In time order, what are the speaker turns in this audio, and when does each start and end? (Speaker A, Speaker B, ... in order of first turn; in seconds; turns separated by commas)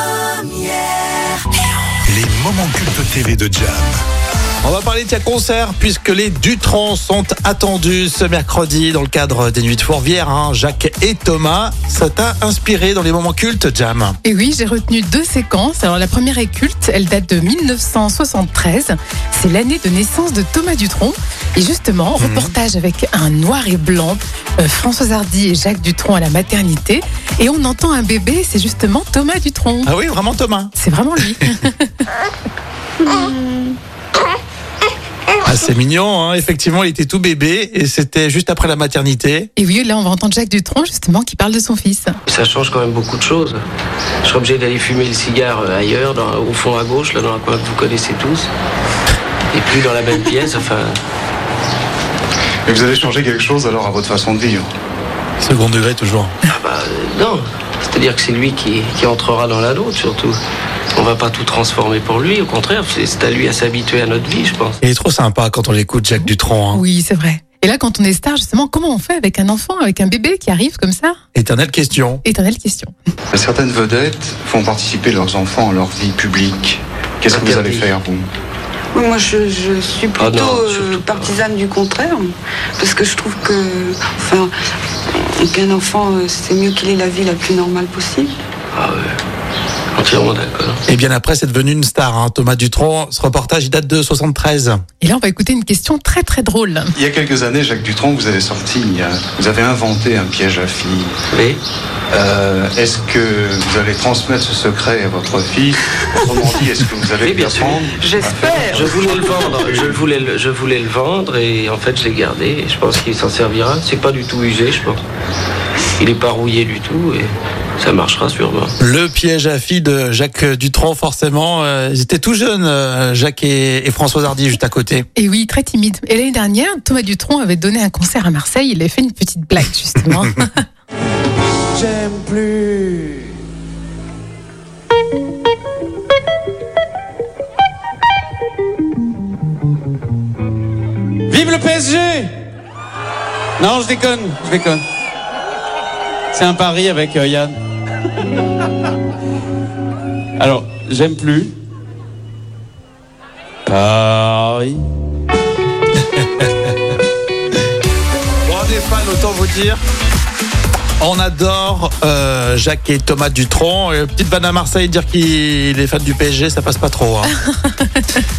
Speaker A: 0.2-0.7, Speaker A: 2.1-4.0, Speaker B: 4.6-14.2, Speaker C: 14.2-29.9, Speaker B: 22.2-22.6, Speaker B: 29.8-30.7, Speaker C: 30.8-32.1, Speaker D: 33.0-33.6, Speaker B: 35.4-39.5, Speaker C: 39.6-42.1, Speaker E: 42.3-43.6, Speaker E: 44.2-48.5, Speaker E: 49.5-51.0, Speaker F: 52.7-54.7, Speaker B: 55.4-56.3, Speaker E: 56.5-60.4, Speaker E: 61.0-64.8, Speaker B: 64.8-66.8, Speaker C: 66.7-71.2, Speaker B: 71.3-72.2, Speaker C: 72.2-72.9, Speaker F: 73.3-78.3, Speaker E: 77.3-77.9, Speaker D: 78.9-84.5, Speaker E: 80.2-81.4, Speaker D: 85.1-88.4, Speaker E: 88.7-89.2, Speaker E: 90.0-90.8, Speaker B: 90.9-94.8, Speaker C: 95.0-96.9, Speaker F: 97.0-101.2, Speaker E: 101.3-101.6, Speaker F: 102.1-110.0, Speaker E: 107.2-115.0, Speaker D: 108.0-108.8, Speaker E: 116.0-118.7, Speaker B: 118.8-125.1, Speaker C: 125.2-130.6, Speaker G: 131.8-133.1, Speaker G: 141.3-142.3, Speaker G: 143.6-144.8, Speaker G: 146.3-147.6, Speaker G: 150.4-151.5, Speaker G: 153.7-154.8, Speaker B: 156.2-156.4, Speaker B: 158.5-159.8, Speaker B: 161.0-167.3, Speaker C: 167.4-168.2